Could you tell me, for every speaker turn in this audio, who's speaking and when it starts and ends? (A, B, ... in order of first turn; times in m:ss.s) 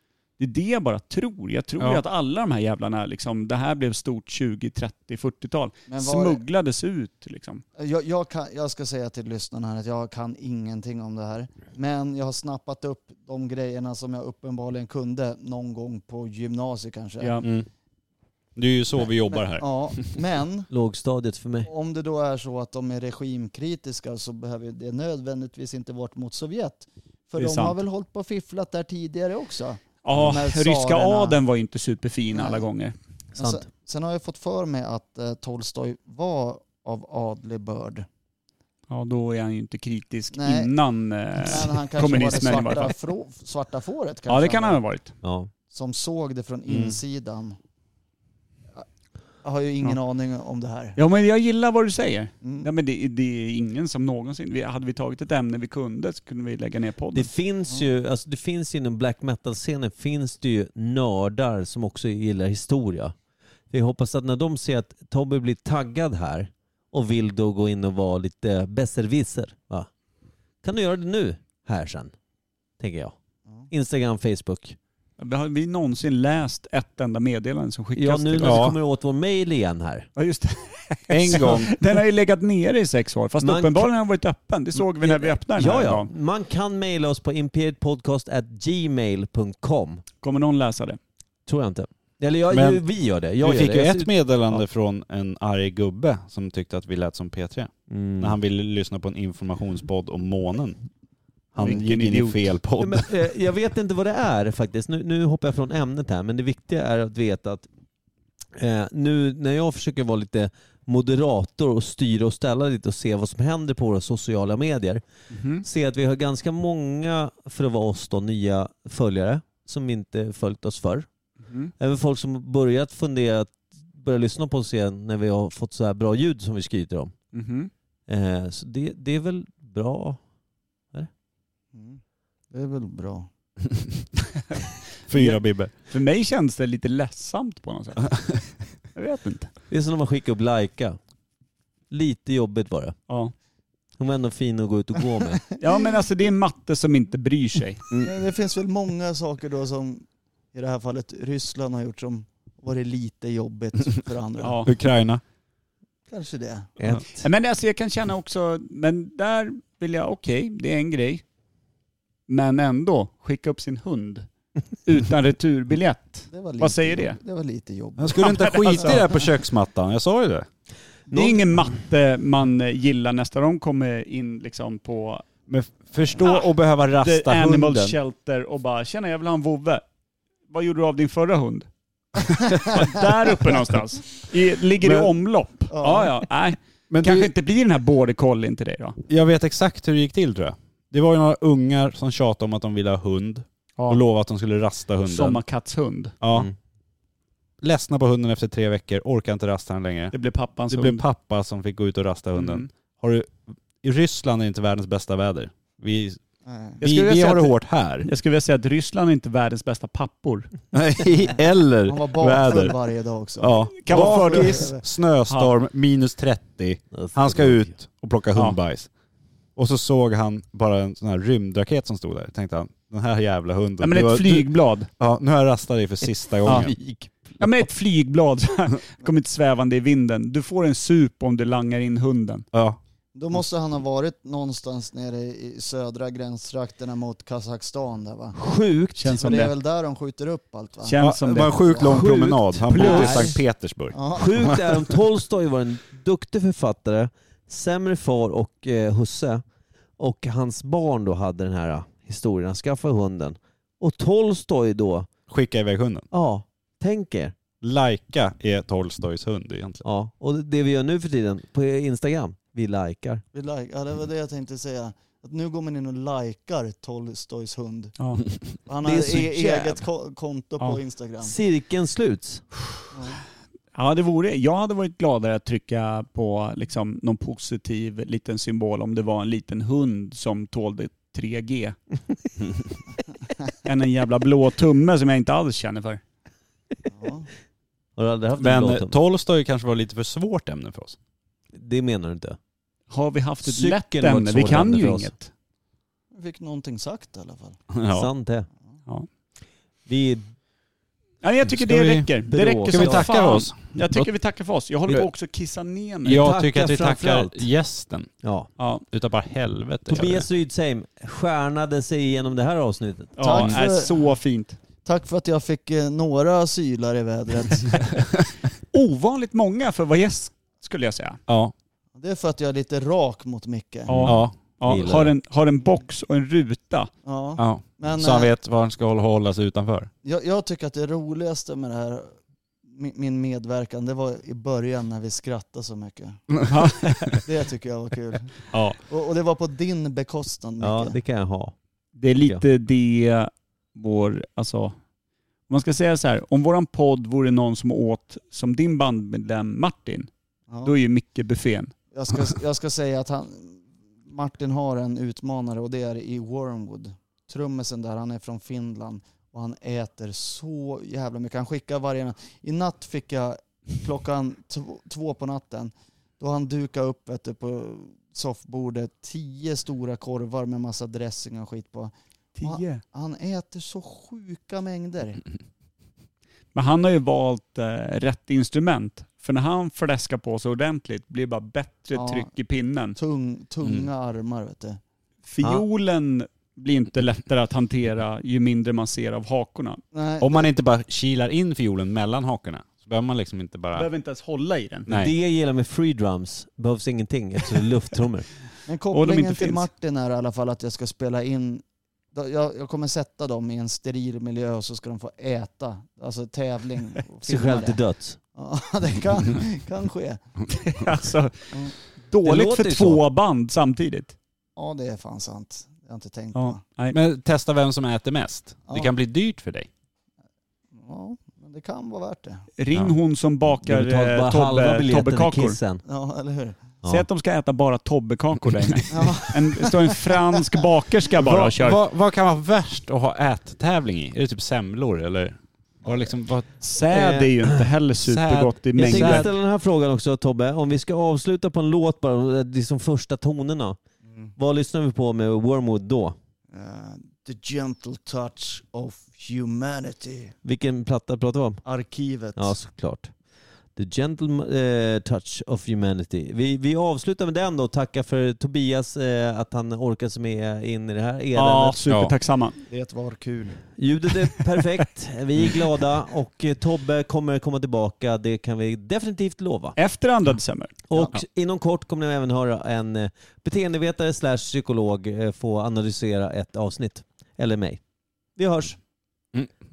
0:00.4-0:07.6 A
0:05.9-0:06.4 B
0:07.8-0:17.4 B
0:17.2-0:17.5 A
0:17.4-0:17.7 C
0:18.6-0:19.8 C
0:19.3-0:20.7 B
0:20.7-0:21.7 D
0:21.6-0:31.4 B
0:27.4-0:27.8 A
0:30.0-0:32.9 A
0:32.3-0:32.6 B
0:33.3-0:33.6 D
0:33.3-0:38.0 B
0:38.9-0:42.9 A
0:40.3-0:40.7 B
0:41.4-0:44.8 B
0:44.3-0:45.1 A
0:45.2-0:45.5 D
0:45.7-0:47.6 B
0:46.7-0:47.0 C
0:49.4-0:51.0 B
0:51.0-0:57.3 A
0:52.4-0:52.7 B
0:57.1-1:03.1 D
1:03.7-1:09.9 D
1:10.6-1:12.1 D
1:12.8-1:13.2 D
1:13.7-1:14.8 D
1:15.2-1:18.6 A
1:17.9-1:20.1 D
1:18.4-1:18.8 C
1:20.2-1:26.1 A
1:21.1-1:21.7 C
1:23.4-1:23.9 D
1:24.9-1:30.0 D
1:30.2-1:31.0 A
1:31.4-1:34.6 D
1:32.5-1:32.8 C
1:33.4-1:40.8 C
1:37.9-1:38.4 D
1:41.5-1:43.1 C
1:41.6-1:42.4 A
1:42.8-1:47.7 D
1:48.5-1:55.0 D
1:55.3-1:55.6 A
1:55.6-2:01.1 D
2:01.8-2:07.1 D
2:07.3-2:07.7 A
2:08.1-2:10.2 D
2:11.7-2:12.0 B
2:12.5-2:13.3 B
2:15.1-2:15.7 C
2:15.1-2:19.5 A
2:19.7-2:21.0 D
2:21.9-2:23.0 D
2:24.0-2:25.4 D
2:25.6-2:27.8 A
2:28.0-2:34.6 B
2:34.4-2:34.7 A
2:34.6-2:35.2 C
2:36.1-2:36.7 B
2:36.8-2:37.2 D
2:37.2-2:41.2 A
2:42.3-2:44.3 A
2:44.8-2:47.2 A
2:46.3-2:49.1 B
2:48.0-2:50.5 C
2:48.2-2:49.1 A
2:51.1-2:55.2 A
2:55.5-2:58.0 C
2:56.1-2:59.8 A
3:00.5-3:01.7 A
3:02.3-3:09.0 A
3:04.8-3:05.1 C
3:05.7-3:06.1 B
3:06.9-3:07.3 C
3:09.1-3:15.4 C
3:15.0-3:16.2 A
3:16.2-3:16.5 C
3:17.6-3:20.1 C
3:20.1-3:21.0 A
3:20.7-3:26.2 C
3:22.4-3:22.7 A
3:26.4-3:26.8 B
3:26.8-3:30.5 A
3:26.8-3:28.1 C
3:30.7-3:32.8 C
3:31.3-3:34.8 B
3:33.4-3:38.9 C
3:33.8-3:34.7 A
3:36.9-3:37.7 D
3:39.6-3:46.8 C
3:43.8-3:44.9 A
3:46.4-3:47.2 D
3:46.4-3:46.7 A
3:47.4-3:52.5 A
3:52.5-3:52.8 C
3:53.1-3:58.4 B
3:58.4-3:59.1 D
3:59.0-3:59.5 A
3:59.2-4:02.0 B
4:00.8-4:01.5 A
4:01.0-4:04.9 C
4:01.8-4:03.4 D
4:02.7-4:03.3 A
4:03.9-4:04.6 B
4:04.1-4:09.4 D
4:10.0-4:15.1 D
4:15.3-4:16.1 C
4:16.1-4:17.3 D
4:17.6-4:19.8 C
4:19.8-4:23.2 D
4:23.3-4:27.9 B
4:28.6-4:31.3 B
4:28.8-4:29.9 D
4:31.2-4:32.4 D
4:32.9-4:33.2 B
4:33.7-4:41.8 A
4:43.6-4:46.0 A
4:46.9-4:47.3 B
4:48.0-4:49.0 D
4:48.4-4:51.0 C
4:51.5-4:52.4 D
4:52.9-4:55.3 A
4:53.4-4:55.1 D
4:56.1-4:57.6 B
4:57.7-4:58.1 C
4:57.9-4:58.5 D
4:59.8-5:00.3 D
5:01.2-5:06.3 A
5:01.5-5:04.1 C
5:02.3-5:03.1 D
5:06.0-5:08.1 C
5:06.1-5:07.5 D
5:08.2-5:08.5 D
5:08.6-5:08.8 A
5:08.9-5:10.3 C
5:09.9-5:13.2 D
5:13.2-5:14.6 A
5:13.2-5:14.2 B
5:14.8-5:17.9 B
5:18.7-5:21.2 A
5:21.3-5:21.5 C
5:22.0-5:24.0 B
5:23.9-5:26.9 A
5:24.0-5:24.3 C
5:24.6-5:25.1 D
5:27.0-5:28.3 B
5:27.4-5:29.9 C
5:30.0-5:32.1 B
5:32.7-5:36.2 B
5:36.5-5:37.2 A
5:37.2-5:41.0 B
5:38.5-5:38.8 C
5:40.6-5:41.5 D
5:42.0-5:44.7 A
5:42.2-5:42.4 D
5:45.5-5:50.1 A
5:50.5-5:50.7 B
5:50.6-5:51.7 A
5:51.9-6:11.9 B
6:12.4-6:12.8 A
6:12.4-6:15.2 B
6:16.5-6:23.0 A
6:21.9-6:22.3 B
6:23.0-6:24.8 B
6:25.2-6:29.8 A
6:29.9-6:30.5 B
6:30.2-6:33.9 C
6:33.7-6:34.9 A
6:34.9-6:35.1 C
6:34.9-6:38.3 D
6:38.6-6:47.8 B
6:38.9-6:39.6 A
6:47.2-6:48.2 D
6:48.3-6:50.2 B
6:50.5-6:54.1 A
6:52.2-6:53.0 D
6:54.6-6:56.6 B
6:56.3-6:57.0 A
6:56.9-6:59.7 C
6:58.7-6:58.9 B
7:00.7-7:02.5 B
7:02.6-7:05.6 A
7:03.6-7:05.8 D
7:05.8-7:06.6 B
7:06.9-7:11.8 A
7:08.9-7:10.0 B
7:11.2-7:16.6 C
7:15.8-7:16.1 B
7:16.6-7:19.3 A
7:16.9-7:17.5 D
7:18.0-7:19.3 C
7:18.8-7:23.8 D
7:24.1-7:24.3 B
7:24.4-7:26.2 D
7:26.5-7:30.3 B
7:30.4-7:31.6 D
7:31.6-7:32.6 B
7:32.3-7:33.1 D
7:33.8-7:41.8 D
7:41.3-7:42.6 A
7:41.9-7:42.1 C
7:42.7-7:43.7 B
7:43.8-7:49.8 D
7:49.8-7:50.8 A
7:50.9-7:57.8 D
7:58.3-7:58.8 D